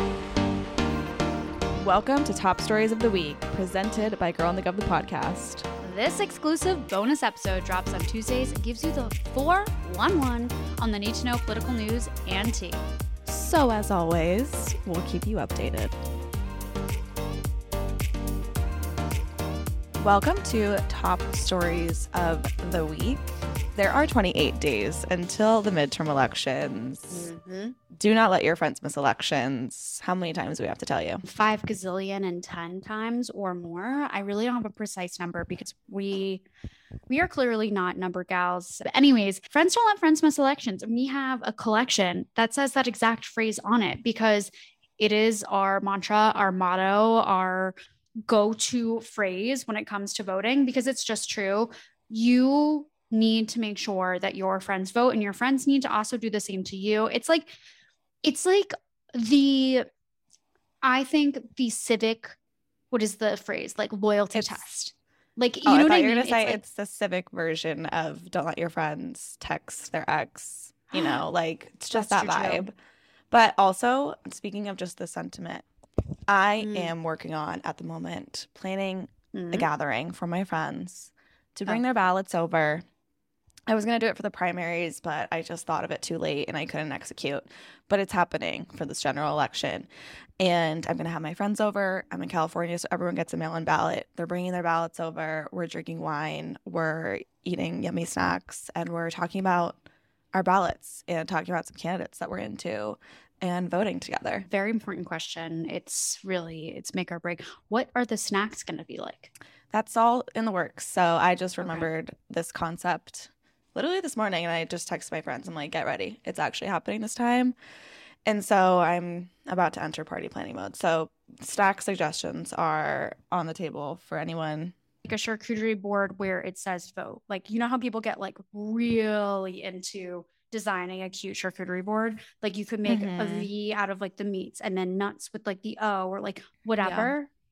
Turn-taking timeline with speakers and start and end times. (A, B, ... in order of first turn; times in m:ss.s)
0:01.8-0:05.7 A
0:05.8-0:12.8 B
0:13.3-0:16.0 A
0:20.0-0:27.3 A
0:27.1-0:27.8 B
0:27.9-0:31.2 A
0:31.2-0:36.4 B
0:37.1-0:47.8 B
0:48.3-0:57.5 B
0:58.2-0:59.9 B
1:00.8-1:02.4 B
1:02.9-1:06.6 B
1:04.3-1:04.6 A
1:05.7-1:12.7 A
1:10.9-1:11.2 B
1:11.9-1:12.7 B
1:13.3-1:15.7 A
1:16.3-1:22.8 A
1:16.6-1:16.9 B
1:19.3-1:19.7 B
1:23.7-1:29.9 A
1:30.4-1:39.8 A
1:40.3-1:44.5 A
1:44.5-1:49.3 B
1:49.7-1:57.6 A
1:51.6-1:51.9 B
1:58.3-2:04.8 A
2:05.0-2:17.3 B
2:12.9-2:13.5 A
2:16.8-2:17.1 A